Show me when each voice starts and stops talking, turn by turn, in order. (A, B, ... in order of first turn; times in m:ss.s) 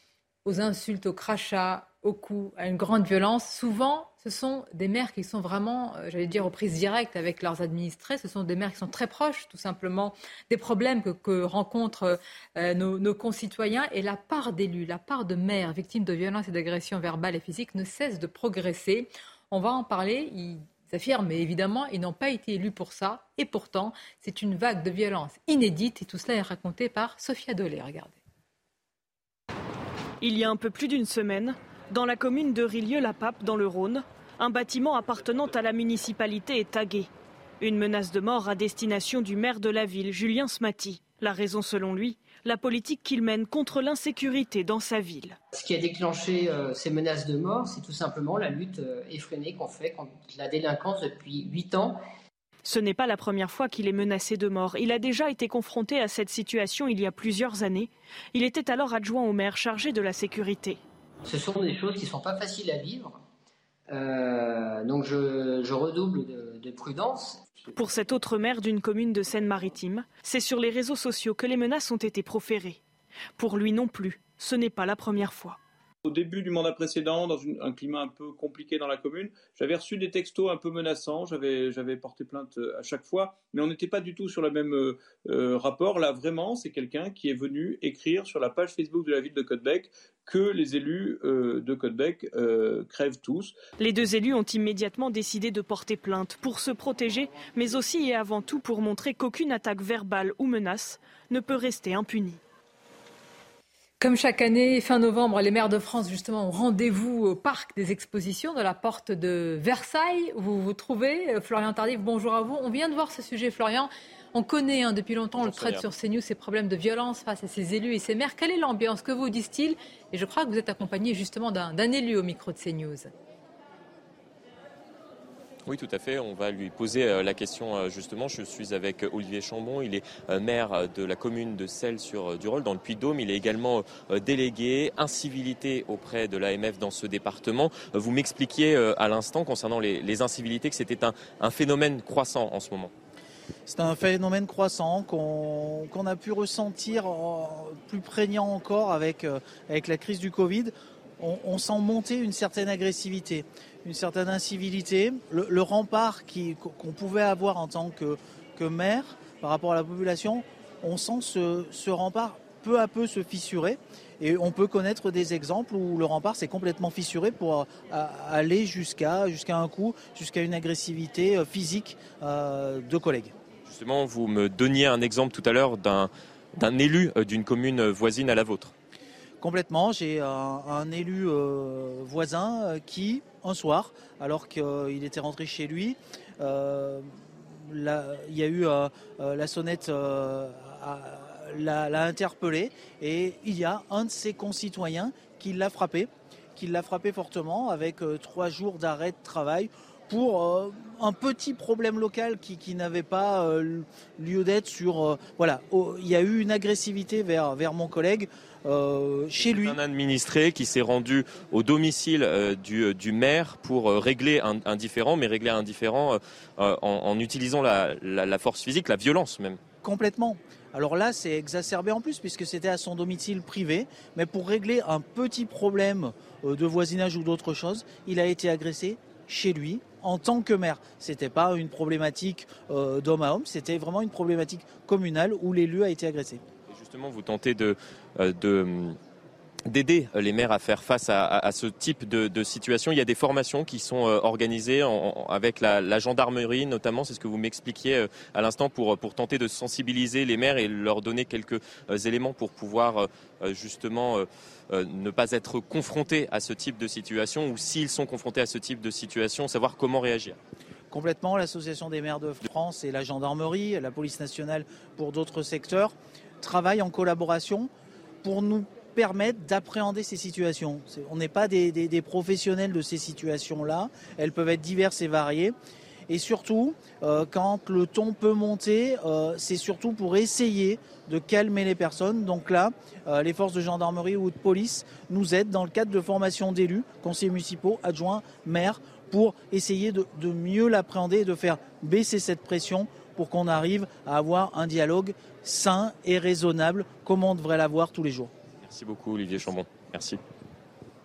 0:00.4-0:28.2 A
0:30.2-0:45.4 B
0:45.5-0:52.0 C
0:52.6-1:00.8 B
1:01.2-1:03.2 C
1:03.9-1:07.7 C
1:07.7-1:12.8 B
1:13.4-1:15.6 B
1:16.0-1:33.6 D
1:33.8-1:42.4 B
1:44.0-2:03.1 A
1:55.4-1:55.8 E
2:05.6-2:22.9 E
2:23.7-2:53.3 F
2:53.6-2:58.7 E
2:59.4-3:07.1 F
3:07.6-3:29.8 F
3:29.4-3:39.6 E
3:39.8-3:56.4 F
3:56.7-3:59.0 E
3:59.6-4:20.4 E
4:20.9-4:27.7 F
4:28.2-4:35.5 F
4:36.1-4:58.3 F
4:58.6-5:00.2 E